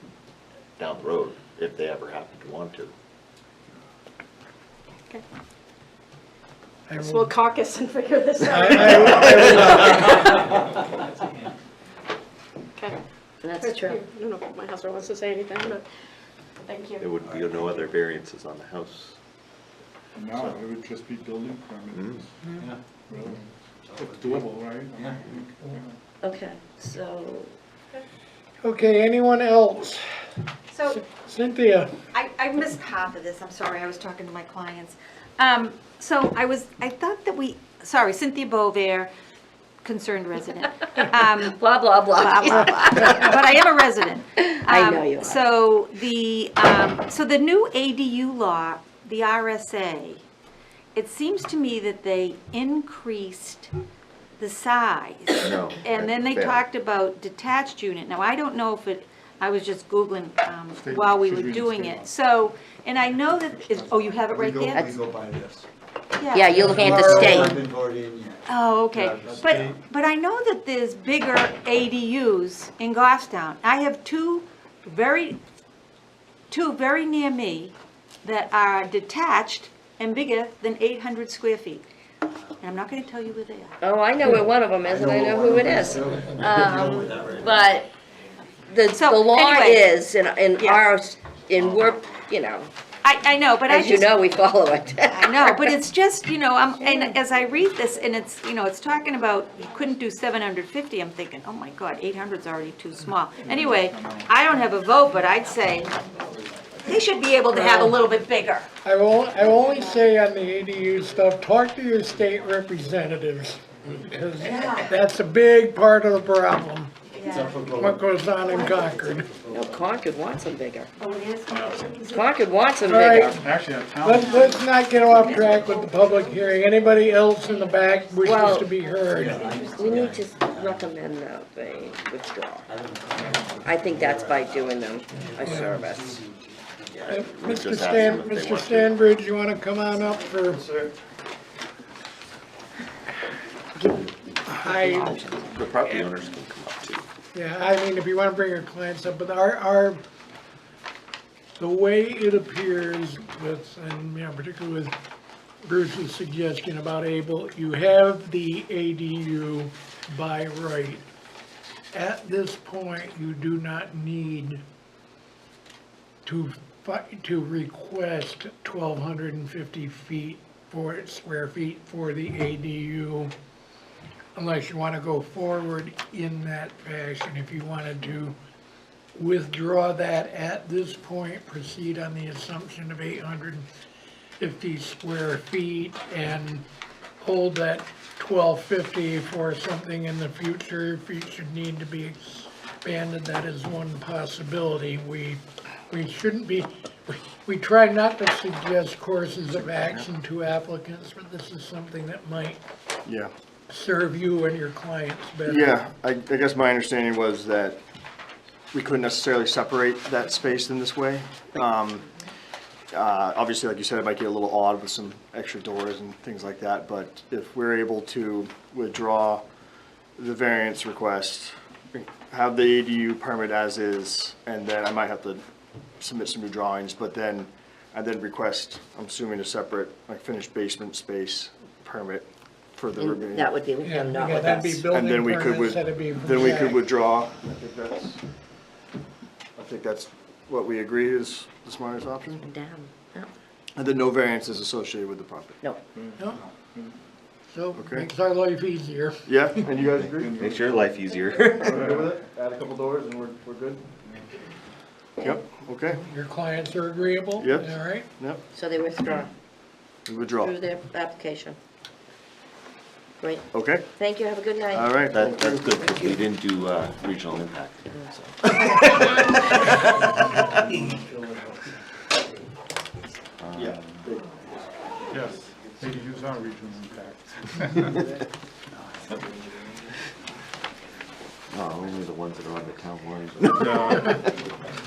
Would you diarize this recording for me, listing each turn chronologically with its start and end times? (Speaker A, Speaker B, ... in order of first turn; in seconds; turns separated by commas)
Speaker A: 0.8-2.9, Speaker B: 6.9-7.3, Speaker C: 7.0-10.5, Speaker B: 8.4-9.8, Speaker D: 13.4-14.0, Speaker C: 13.5-15.8, Speaker C: 16.7-17.1, Speaker A: 17.0-19.2, Speaker E: 17.2-17.8, Speaker F: 20.1-23.4, Speaker A: 21.9-22.2, Speaker E: 22.6-25.2, Speaker F: 23.9-25.9, Speaker D: 26.2-27.6, Speaker B: 28.6-30.0, Speaker G: 30.7-31.0, Speaker B: 31.1-31.9, Speaker G: 32.1-39.1, Speaker G: 39.8-41.5, Speaker D: 41.2-43.3, Speaker G: 42.2-50.2, Speaker D: 44.4-45.4, Speaker G: 50.9-53.7, Speaker G: 54.4-64.9, Speaker A: 55.4-56.6, Speaker F: 60.7-62.1, Speaker F: 63.1-64.2, Speaker E: 64.2-65.6, Speaker G: 66.2-67.5, Speaker D: 66.3-67.6, Speaker E: 66.7-69.7, Speaker G: 68.5-75.4, Speaker G: 76.5-81.8, Speaker G: 82.6-83.8, Speaker D: 83.8-87.9, Speaker E: 84.4-87.7, Speaker D: 88.7-92.7, Speaker G: 88.9-89.9, Speaker G: 90.6-90.9, Speaker G: 93.0-94.2, Speaker D: 93.7-95.8, Speaker G: 95.1-105.9, Speaker D: 96.8-97.2, Speaker F: 103.4-104.3, Speaker G: 106.8-108.7, Speaker B: 107.5-108.0, Speaker B: 108.8-116.9, Speaker G: 114.4-114.9, Speaker G: 117.1-117.6, Speaker E: 117.2-120.1, Speaker B: 117.7-119.3, Speaker G: 118.5-118.8, Speaker D: 119.5-120.9, Speaker G: 121.0-122.3, Speaker F: 121.5-122.0, Speaker D: 122.1-123.4, Speaker B: 122.9-123.4, Speaker F: 122.9-124.6, Speaker G: 122.9-123.2, Speaker B: 124.0-129.4, Speaker G: 124.1-126.4, Speaker D: 128.2-128.7, Speaker G: 129.1-130.2, Speaker E: 129.1-130.9, Speaker D: 129.7-132.7, Speaker E: 132.7-137.1, Speaker D: 133.6-136.2, Speaker B: 135.4-135.8, Speaker A: 136.9-139.0, Speaker B: 137.1-140.6, Speaker H: 140.5-140.9, Speaker B: 144.5-145.2, Speaker A: 144.9-147.1, Speaker B: 147.3-150.0, Speaker B: 151.6-154.9, Speaker B: 155.6-161.0, Speaker B: 161.9-164.6, Speaker B: 166.2-173.3, Speaker B: 174.3-178.3, Speaker B: 179.2-183.7, Speaker B: 184.4-186.6, Speaker B: 187.2-202.6, Speaker H: 199.6-200.0, Speaker H: 203.1-203.3, Speaker B: 203.7-205.8, Speaker H: 205.4-207.8, Speaker H: 208.7-212.1, Speaker H: 212.9-219.4, Speaker H: 220.2-225.4, Speaker H: 226.0-233.5, Speaker D: 232.9-234.8, Speaker B: 233.8-236.9, Speaker H: 234.9-238.2, Speaker H: 239.6-242.4, Speaker D: 242.2-243.3, Speaker H: 243.8-245.6, Speaker F: 245.9-246.9, Speaker B: 247.5-249.2, Speaker H: 247.7-248.1, Speaker H: 249.3-250.4, Speaker F: 249.6-250.9, Speaker A: 250.4-251.9, Speaker F: 251.6-252.1, Speaker H: 251.6-253.8, Speaker H: 255.2-256.0, Speaker B: 255.9-258.1, Speaker H: 257.4-258.4, Speaker D: 258.5-259.3, Speaker H: 260.1-260.6, Speaker D: 260.2-261.6, Speaker D: 263.2-266.1, Speaker H: 263.5-263.9, Speaker H: 264.7-265.8, Speaker A: 265.1-268.8, Speaker F: 270.5-271.1, Speaker A: 273.4-273.8, Speaker H: 273.5-274.5, Speaker F: 273.7-274.0, Speaker F: 275.1-278.0, Speaker A: 281.5-284.2, Speaker F: 283.4-284.3